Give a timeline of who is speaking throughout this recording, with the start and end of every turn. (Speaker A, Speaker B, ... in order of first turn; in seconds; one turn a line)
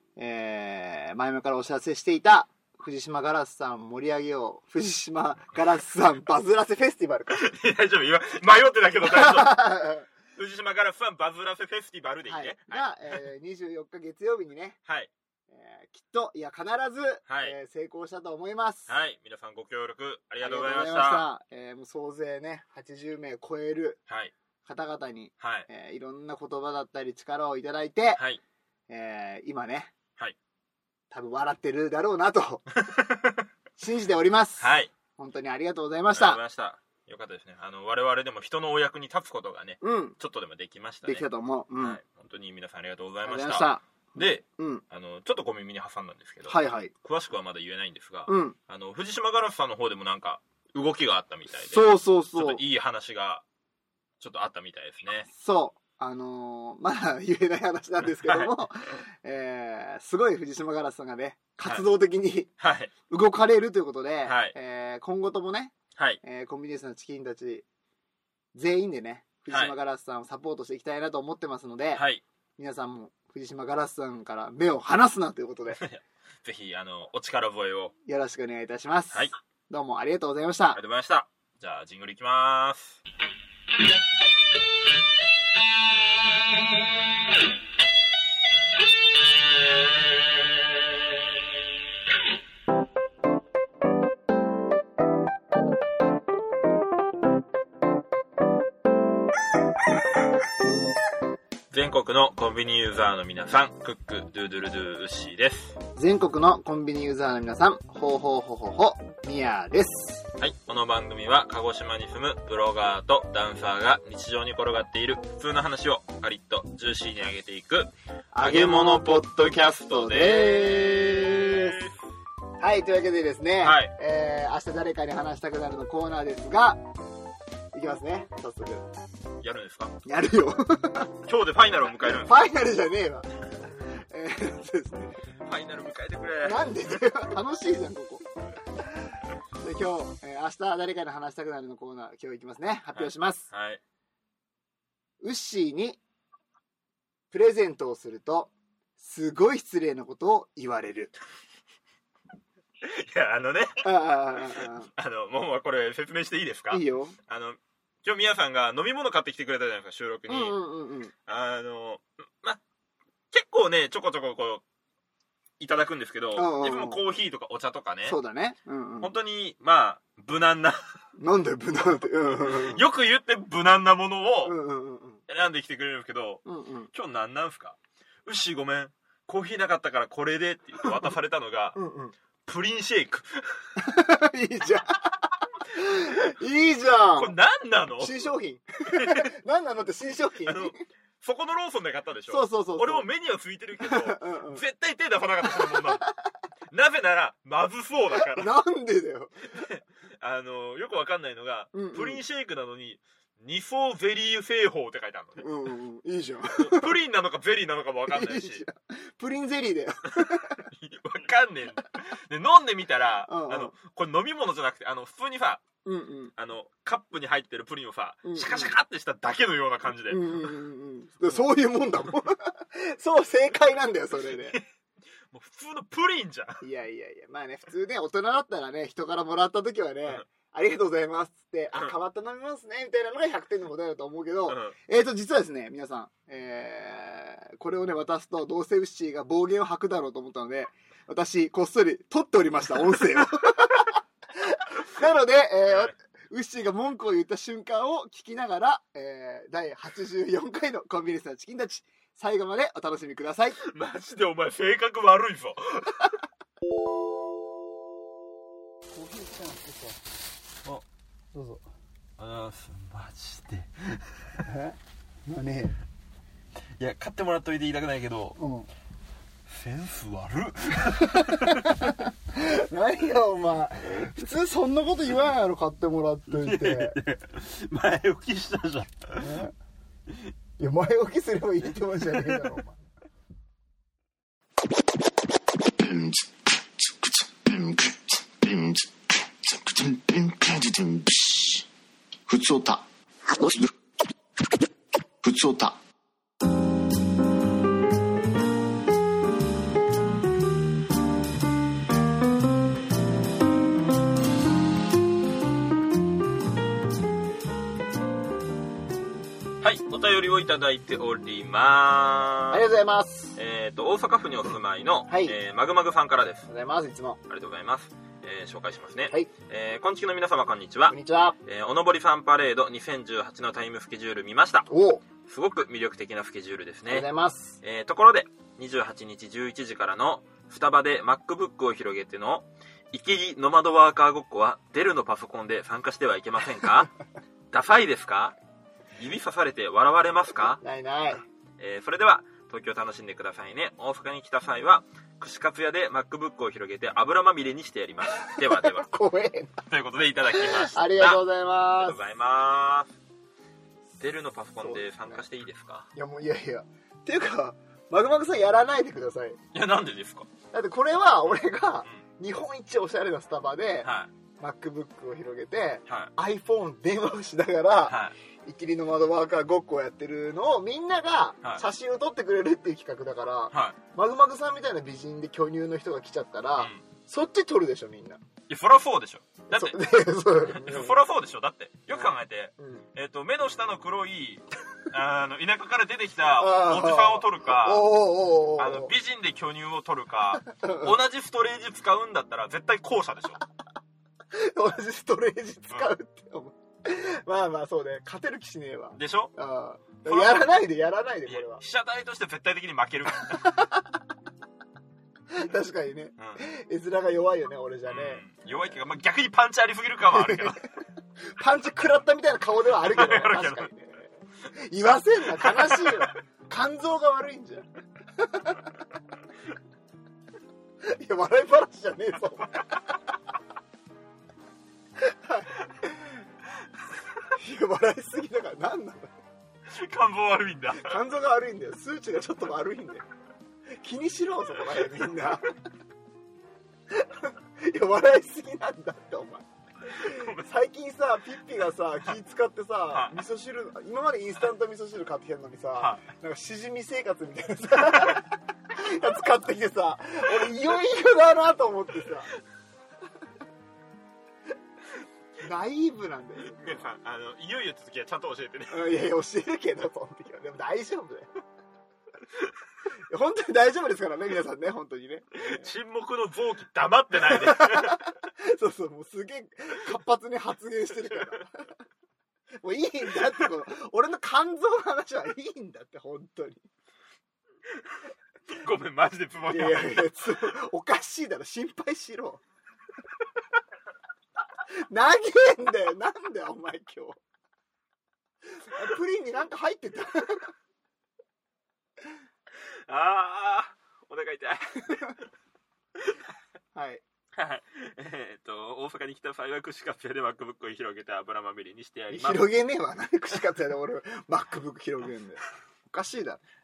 Speaker A: 0.2-7.5
Speaker B: 7.3-9.7
Speaker A: 9.0-10.1
Speaker B: 10.3-12.9
Speaker A: 12.2-14.8
Speaker A: 15.5-18.9
Speaker B: 17.3-17.6
Speaker B: 18.9-21.2
Speaker A: 20.4-24.0
Speaker B: 24.1-24.3
Speaker A: 24.6-28.2
Speaker B: 25.4-25.7
Speaker B: 28.1-28.4
Speaker A: 28.9-29.9
Speaker A: 31.1-32.6
Speaker B: 32.8-33.4
Speaker A: 33.8-36.4
Speaker B: 34.6-34.9
Speaker B: 36.1-41.2
Speaker A: 39.8-40.2
Speaker A: 41.0-42.0
Speaker B: 41.8-53.4
Speaker A: 43.2-44.8
Speaker A: 46.5-46.9
Speaker A: 48.2-48.5
Speaker A: 51.7-52.6
Speaker B: 54.2-55.3
Speaker A: 55.3-62.5
Speaker B: 58.2-58.5
Speaker B: 62.6-62.9
Speaker A: 63.1-67.6
Speaker B: 64.2-64.5
Speaker A: 68.5-72.0
Speaker B: 69.5-69.7
Speaker B: 71.9-72.2
Speaker A: 72.6-75.8
Speaker B: 75.7-77.9
Speaker A: 78.0-80.8
Speaker B: 80.7-83.0
Speaker B: 101.7-105.8
Speaker A: 106.0-110.3
Speaker B: 110.4-122.0
Speaker A: 118.3-121.8
Speaker A: 122.6-126.8
Speaker B: 123.6-123.9
Speaker A: 127.7-128.9
Speaker B: 129.4-129.9
Speaker A: 130.0-131.1
Speaker B: 131.2-132.4
Speaker A: 132.0-135.1
Speaker B: 135.4-136.9
Speaker A: 136.4-138.3
Speaker A: 139.6-143.5
Speaker B: 142.9-143.8
Speaker A: 145.2-146.0
Speaker A: 147.3-151.1
Speaker B: 152.8-160.6
Speaker A: 153.8-154.9
Speaker A: 156.7-157.2
Speaker A: 160.3-161.1
Speaker B: 161.3-162.6
Speaker B: 163.3-164.6
Speaker B: 165.6-168.2
Speaker A: 166.3-167.0
Speaker A: 168.0-169.1
Speaker B: 169.0-170.8
Speaker A: 171.2-172.8
Speaker B: 172.4-174.6
Speaker A: 174.4-175.2
Speaker B: 175.3-181.8
Speaker A: 176.4-176.9
Speaker A: 181.8-182.1
Speaker B: 182.4-183.6
Speaker A: 183.8-185.2
Speaker A: 185.7-187.3
Speaker B: 187.2-188.3
Speaker A: 188.0-190.8
Speaker B: 188.9-189.3
Speaker B: 190.4-196.1
Speaker A: 192.3-193.1
Speaker A: 193.8-194.6
Speaker A: 195.5-195.8
Speaker B: 196.7-198.5
Speaker A: 198.2-199.7
Speaker B: 199.5-205.5
Speaker A: 201.7-202.2
Speaker A: 205.4-206.9
Speaker B: 206.5-208.6
Speaker A: 208.1-210.6
Speaker B: 210.7-215.6
Speaker A: 213.3-213.7
Speaker A: 215.8-216.3
Speaker B: 216.4-220.5
Speaker A: 218.2-218.7
Speaker A: 220.1-224.6
Speaker B: 224.2-224.6
Speaker B: 225.3-226.6
Speaker A: 226.6-253.6
Speaker B: 234.5-234.7
Speaker B: 245.7-245.9
Speaker B: 253.6-256.1
Speaker A: 258.9-260.0
Speaker A: 261.3-261.6
Speaker B: 262.2-264.4
Speaker A: 264.4-264.7
Speaker A: 265.3-265.8
Speaker B: 266.8-268.4
Speaker A: 268.4-268.7
Speaker B: 269.5-271.8
Speaker A: 271.2-277.0
Speaker B: 276.3-279.3
Speaker A: 279.2-279.5
Speaker A: 280.6-282.8
Speaker B: 281.6-282.5
Speaker C: 285.6-291.6
Speaker C: 292.3-293.7
Speaker C: 295.2-295.8
Speaker B: 309.6-312.6
Speaker A: 312.5-313.4
Speaker B: 313.4-316.4
Speaker A: 315.1-315.3
Speaker A: 316.5-317.2
Speaker B: 317.3-324.7
Speaker A: 320.9-321.4
Speaker A: 324.7-325.0
Speaker B: 325.2-327.1
Speaker A: 326.9-327.6
Speaker B: 327.6-336.9
Speaker B: 337.5-338.4
Speaker B: 339.0-340.6
Speaker A: 340.6-341.2
Speaker B: 341.6-348.9
Speaker A: 348.2-349.6
Speaker B: 349.7-351.2
Speaker A: 350.3-352.0
Speaker B: 351.8-352.9
Speaker B: 354.0-355.9
Speaker A: 354.6-355.2
Speaker A: 355.9-359.4
Speaker B: 359.5-360.3
Speaker A: 360.5-378.2
Speaker B: 363.8-364.1
Speaker B: 365.9-366.1
Speaker B: 367.8-368.1
Speaker B: 373.5-373.8
Speaker B: 376.6-376.8
Speaker B: 378.5-379.8
Speaker A: 379.5-380.9
Speaker B: 380.4-387.9
Speaker A: 381.9-382.8
Speaker A: 386.4-388.9
Speaker B: 388.6-393.4
Speaker A: 390.4-391.0
Speaker A: 394.3-401.6
Speaker B: 398.9-399.3
Speaker B: 400.1-400.6
Speaker B: 401.2-403.6
Speaker A: 403.3-403.8
Speaker A: 405.3-408.3
Speaker B: 406.2-406.4
Speaker B: 407.9-410.6
Speaker A: 410.1-410.5
Speaker A: 411.2-417.7
Speaker B: 412.8-413.7
Speaker B: 415.3-416.1
Speaker A: 418.2-418.6
Speaker A: 420.8-422.8
Speaker A: 425.0-426.1
Speaker A: 427.3-429.1
Speaker B: 429.7-431.0
Speaker A: 430.8-433.0
Speaker A: 433.7-435.5
Speaker A: 436.9-452.3
Speaker B: 440.0-440.4
Speaker B: 442.9-443.2
Speaker B: 445.8-446.0
Speaker B: 447.9-448.2
Speaker A: 455.4-456.8
Speaker B: 456.5-458.8
Speaker A: 458.7-461.3
Speaker A: 463.1-465.7
Speaker B: 465.3-468.0
Speaker A: 467.2-471.7
Speaker B: 471.1-471.3
Speaker A: 472.6-476.6
Speaker B: 478.5-480.1
Speaker A: 479.5-482.4
Speaker A: 484.7-487.2
Speaker A: 488.6-490.5
Speaker B: 492.6-495.2
Speaker A: 496.7-497.0
Speaker B: 497.3-502.5
Speaker A: 502.1-506.4